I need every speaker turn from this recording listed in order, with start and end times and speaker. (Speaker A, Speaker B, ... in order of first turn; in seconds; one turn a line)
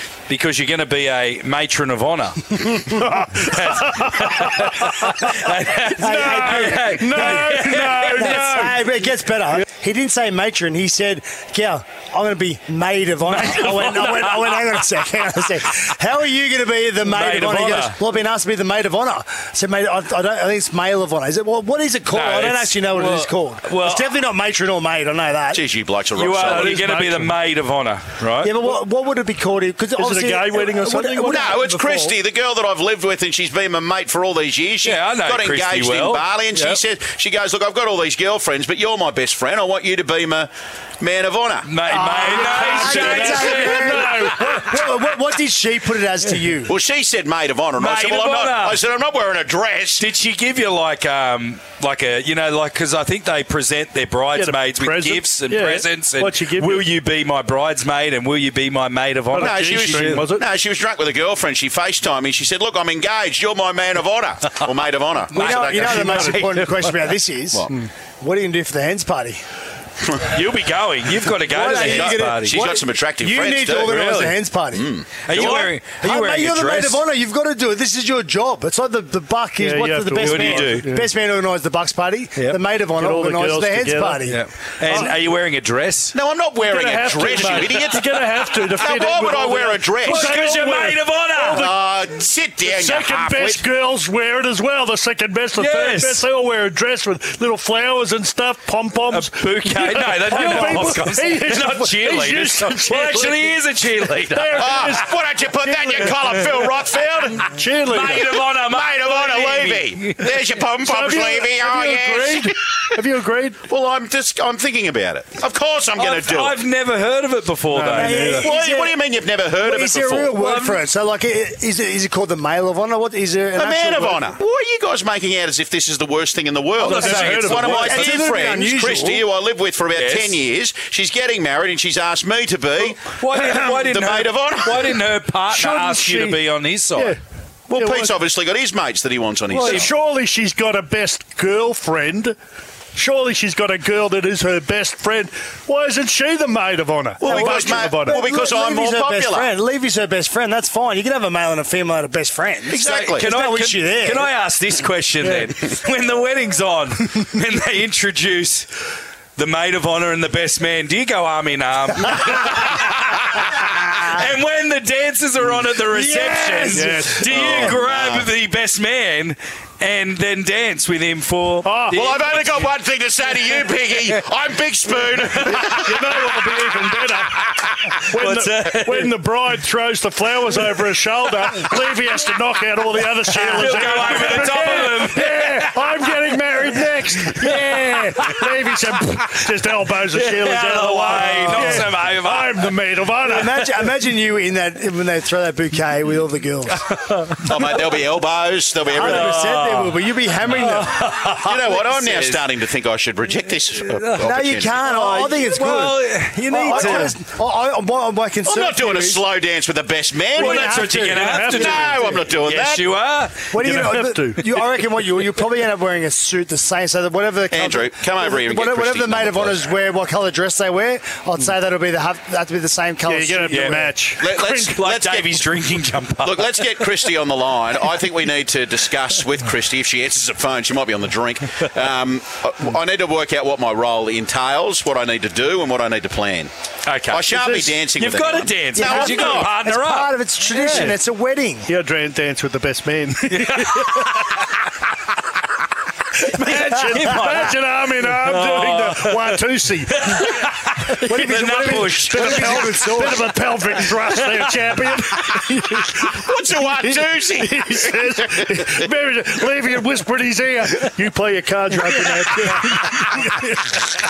Speaker A: 0.3-8.5
Speaker B: 2.7-4.9
Speaker C: 5.8-25.6
Speaker B: 6.0-9.1
Speaker A: 13.3-14.2
Speaker A: 17.0-18.0
Speaker A: 22.1-24.1
Speaker D: 25.5-26.8
Speaker A: 26.1-28.5
Speaker B: 26.4-27.4
Speaker C: 28.4-31.6
Speaker B: 29.9-32.1
Speaker D: 31.3-41.7
Speaker A: 34.8-36.8
Speaker A: 41.6-44.0
Speaker C: 41.9-46.8
Speaker B: 42.4-44.9
Speaker D: 46.7-50.1
Speaker A: 47.8-48.8
Speaker A: 50.0-60.3
Speaker B: 54.3-56.9
Speaker B: 59.3-60.5
Speaker D: 59.4-66.3
Speaker A: 65.3-66.6
Speaker C: 65.3-69.4
Speaker B: 65.9-67.0
Speaker A: 70.2-72.7
Speaker C: 71.5-84.4
Speaker D: 71.7-74.0
Speaker A: 73.8-74.4
Speaker D: 74.7-75.8
Speaker A: 75.2-77.0
Speaker B: 79.6-81.1
Speaker A: 80.2-80.9
Speaker A: 82.3-82.6
Speaker B: 82.9-84.3
Speaker A: 84.3-86.2
Speaker B: 84.8-85.2
Speaker D: 86.1-90.3
Speaker B: 86.6-92.0
Speaker A: 90.0-91.6
Speaker D: 91.5-93.6
Speaker B: 92.6-106.7
Speaker A: 95.5-96.3
Speaker A: 99.1-104.7
Speaker D: 104.6-107.5
Speaker B: 107.4-108.4
Speaker A: 107.8-110.3
Speaker D: 108.5-113.0
Speaker B: 110.8-113.6
Speaker D: 113.6-116.6
Speaker A: 116.0-118.3
Speaker B: 117.7-118.5
Speaker C: 117.9-119.0
Speaker D: 118.4-120.4
Speaker C: 119.6-124.4
Speaker A: 120.4-120.8
Speaker D: 123.6-135.0
Speaker B: 126.8-128.1
Speaker C: 126.9-129.3
Speaker A: 127.0-127.7
Speaker A: 129.9-130.4
Speaker A: 133.0-137.2
Speaker B: 135.5-136.4
Speaker D: 137.7-139.9
Speaker B: 137.7-138.1
Speaker B: 139.5-142.3
Speaker B: 142.9-148.2
Speaker D: 147.2-149.5
Speaker C: 147.2-154.3
Speaker D: 152.7-153.3
Speaker A: 152.8-158.7
Speaker A: 159.4-172.7
Speaker C: 165.9-167.1
Speaker B: 166.7-167.8
Speaker D: 167.2-168.3
Speaker B: 171.6-172.0
Speaker D: 171.9-176.9
Speaker A: 175.2-175.7
Speaker B: 175.4-193.9
Speaker A: 178.1-179.1
Speaker A: 183.3-186.0
Speaker A: 187.3-188.3
Speaker A: 190.1-192.8
Speaker C: 191.2-191.5
Speaker C: 193.2-196.8
Speaker A: 196.9-197.8
Speaker D: 197.4-199.4
Speaker C: 198.8-201.3
Speaker A: 198.9-202.4
Speaker D: 201.3-205.3
Speaker A: 203.8-204.3
Speaker C: 204.2-209.2
Speaker A: 204.9-207.2
Speaker D: 206.6-207.1
Speaker D: 208.4-210.9
Speaker C: 210.3-212.2
Speaker A: 210.3-213.5
Speaker B: 211.1-212.2
Speaker D: 211.5-212.9
Speaker C: 213.5-223.8
Speaker B: 213.6-214.5
Speaker D: 217.5-219.7
Speaker B: 223.1-224.8
Speaker A: 223.5-224.0
Speaker D: 224.2-225.5
Speaker A: 224.7-227.0
Speaker D: 226.2-236.5
Speaker A: 236.8-240.9
Speaker D: 237.1-239.5
Speaker C: 238.8-241.7
Speaker B: 240.6-241.0
Speaker B: 241.7-244.3
Speaker A: 243.3-244.6
Speaker A: 246.2-253.1
Speaker B: 246.3-250.5
Speaker B: 251.0-263.5
Speaker C: 251.1-253.4
Speaker D: 256.0-258.8